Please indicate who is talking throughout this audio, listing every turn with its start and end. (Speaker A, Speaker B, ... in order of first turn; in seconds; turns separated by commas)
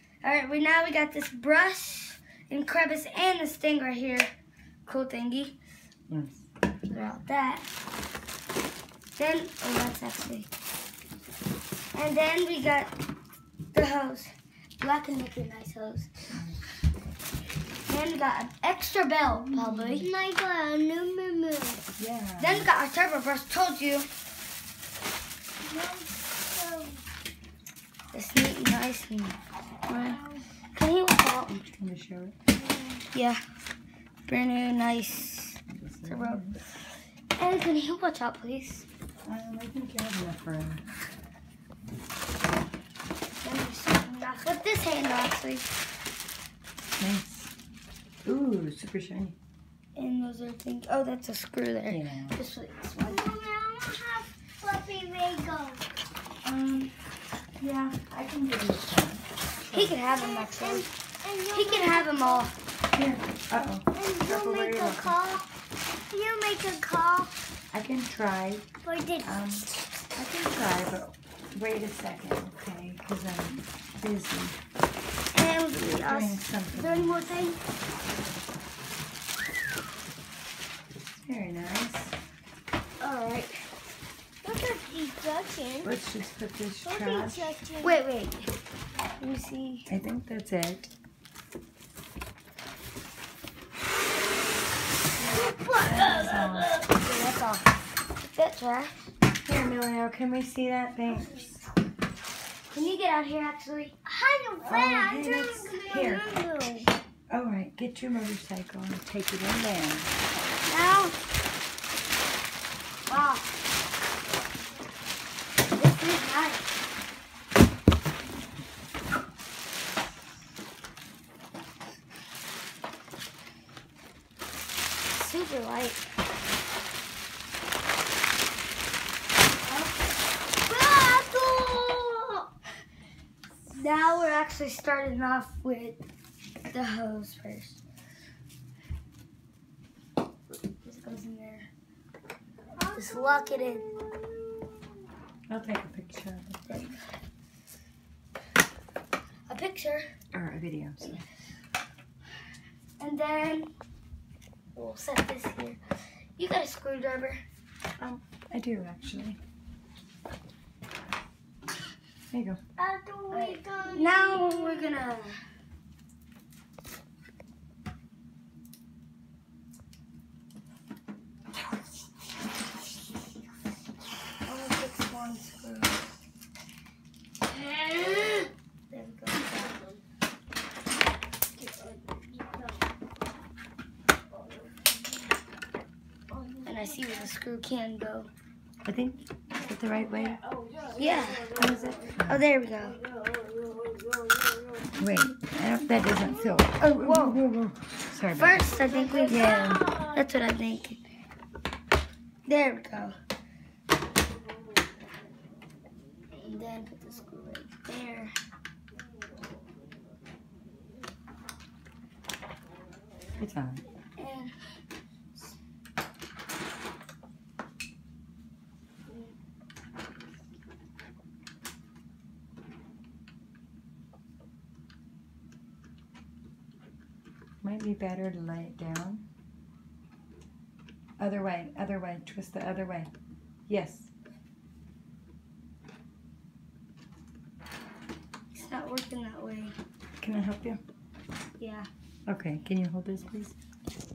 Speaker A: 0.2-4.3, Speaker A: 4.9-5.6, Speaker B: 6.1-6.5, Speaker A: 6.9-7.7, Speaker A: 9.2-10.5, Speaker A: 11.9-12.9, Speaker A: 13.7-16.1, Speaker B: 16.3-16.6, Speaker A: 17.9-20.1, Speaker B: 19.5-19.9, Speaker C: 19.8-21.8, Speaker B: 22.0-22.7, Speaker A: 22.4-24.1, Speaker C: 25.6-27.0, Speaker A: 28.1-29.4, Speaker A: 29.9-30.2, Speaker C: 29.9-30.4, Speaker A: 30.7-31.7, Speaker B: 31.6-32.4, Speaker C: 32.6-33.0, Speaker A: 33.1-33.4, Speaker A: 34.3-36.6, Speaker B: 35.7-36.6, Speaker A: 37.4-38.9, Speaker B: 39.2-40.8, Speaker A: 43.4-45.7, Speaker B: 47.0-47.5, Speaker B: 48.2-49.4, Speaker A: 50.0-53.2, Speaker B: 51.9-52.4, Speaker C: 53.0-55.9, Speaker B: 56.4-56.9, Speaker B: 57.6-60.0, Speaker A: 59.7-60.9, Speaker C: 60.1-62.5, Speaker A: 61.5-62.5, Speaker B: 62.9-65.2, Speaker C: 63.9-65.5, Speaker C: 66.1-67.3, Speaker B: 67.7-68.7, Speaker C: 68.8-69.3, Speaker B: 69.2-74.6, Speaker A: 75.3-77.6, Speaker B: 75.9-77.3, Speaker B: 81.1-82.2, Speaker A: 83.0-83.6, Speaker C: 84.4-85.9, Speaker B: 85.8-87.6, Speaker C: 86.8-88.0, Speaker A: 87.8-88.5, Speaker A: 89.2-89.9, Speaker B: 89.9-90.9, Speaker C: 95.3-96.5, Speaker A: 95.3-99.0, Speaker B: 95.8-96.8, Speaker B: 99.5-101.6, Speaker A: 102.7-104.0, Speaker C: 104.0-106.9, Speaker B: 104.7-106.3, Speaker B: 107.3-110.1, Speaker A: 110.7-111.2, Speaker A: 113.1-113.5, Speaker A: 115.7-116.7, Speaker A: 125.1-126.1, Speaker C: 130.7-132.4, Speaker A: 133.7-136.0, Speaker A: 136.7-137.8, Speaker A: 140.8-141.7, Speaker C: 142.8-145.0, Speaker A: 142.9-143.8, Speaker B: 145.5-146.7, Speaker A: 146.7-147.1, Speaker A: 149.5-150.1, Speaker B: 150.3-151.2, Speaker A: 153.0-153.7, Speaker A: 154.8-155.8, Speaker A: 156.4-157.4, Speaker B: 158.0-159.4, Speaker B: 162.3-162.6, Speaker C: 162.8-165.0, Speaker A: 163.3-165.4, Speaker A: 174.4-176.1, Speaker A: 177.5-179.9, Speaker C: 181.6-182.8, Speaker C: 186.3-187.2, Speaker A: 186.6-188.3, Speaker B: 188.8-190.4, Speaker C: 190.6-191.7, Speaker A: 190.9-191.6, Speaker B: 191.5-192.4, Speaker A: 192.2-193.0, Speaker C: 193.0-194.9, Speaker B: 195.0-198.7, Speaker A: 196.9-197.4, Speaker A: 198.4-201.0, Speaker C: 198.9-200.1, Speaker B: 199.3-200.0, Speaker A: 202.5-203.2, Speaker A: 206.3-208.3, Speaker B: 213.4-213.8, Speaker A: 214.2-214.6, Speaker B: 227.6-229.3, Speaker B: 231.2-233.1, Speaker B: 233.7-234.1, Speaker A: 238.5-239.8, Speaker B: 240.2-240.8, Speaker A: 241.6-241.9, Speaker B: 242.3-243.6